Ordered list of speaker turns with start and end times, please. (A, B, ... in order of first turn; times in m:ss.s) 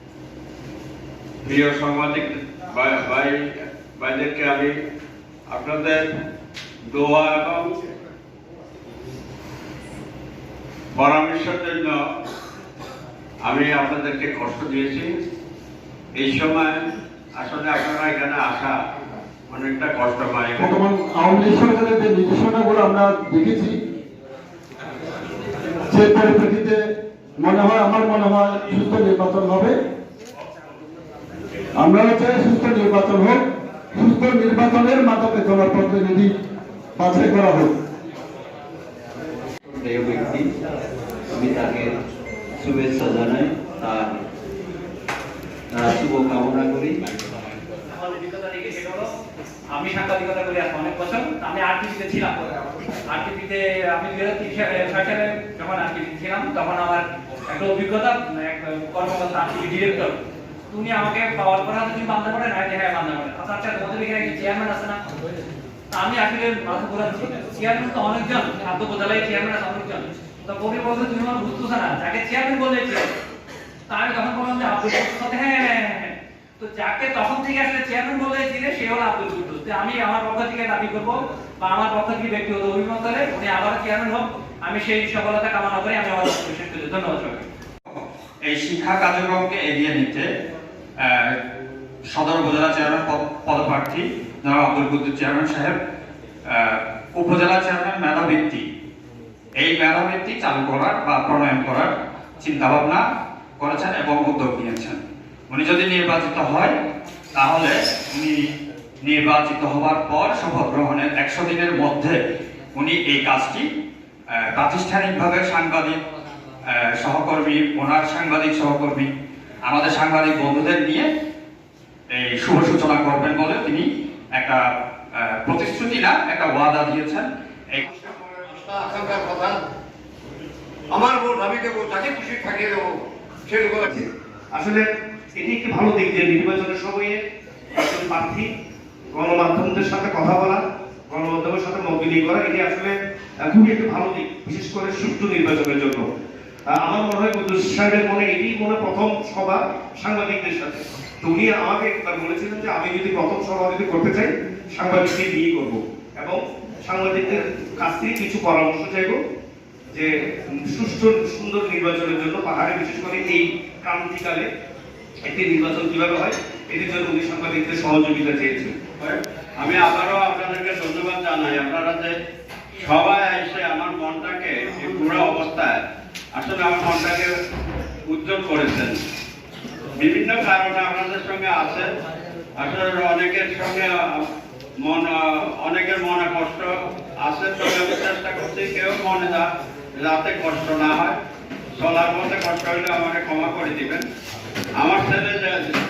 0:01.4-0:03.4 A
0:04.0-0:04.7 A
0:05.5-0:06.0 A
0:06.9-0:07.7 A
0:10.9-0:12.0 A
0:13.4-0:15.1 A
0:16.2-0:18.7 A
0:19.5-0:20.8 A
0:20.6-0:23.8 B
0:25.9-0:26.8 B
0:27.4-0:29.7 B
0:31.8-0:33.4 B
0:33.9-0:36.3 B
0:37.0-0:37.7 B
0:39.7-0:40.5 C
0:41.3-0:41.9 C
0:42.6-0:44.2 C
0:45.7-0:47.0 C
0:47.9-0:49.1 D
0:49.7-0:52.4 D
0:53.1-1:00.2 D
1:00.7-1:05.0 D
1:05.9-1:13.1 D
1:13.9-1:27.4 D
1:28.0-1:30.3 E
1:31.0-1:31.4 E
1:32.1-1:35.8 E
1:36.5-1:38.6 E
1:39.6-1:43.0 E
1:43.6-1:45.0 E
1:45.5-1:46.7 E
1:47.3-1:48.4 E
1:49.0-1:52.2 E
1:52.8-1:53.7 E
1:54.3-1:56.0 E
1:56.7-1:59.1 E
1:59.6-2:01.1 E
2:02.1-2:07.8 E
2:07.9-2:09.6 F
2:10.9-2:14.0 F
2:13.8-2:14.8 G
2:15.3-2:17.2 G
2:17.8-2:18.5 G
2:19.1-2:26.0 G
2:26.7-2:39.2 G
2:40.6-2:44.5 G
2:45.2-2:48.8 G
2:49.0-2:52.1 A
2:52.8-2:55.8 A
2:56.3-2:57.3 A
2:58.1-2:59.0 A
3:00.0-3:01.9 A
3:02.6-3:04.2 A
3:04.8-3:06.7 A
3:07.2-3:11.2 A
3:11.8-3:14.0 A
3:14.8-3:15.7 A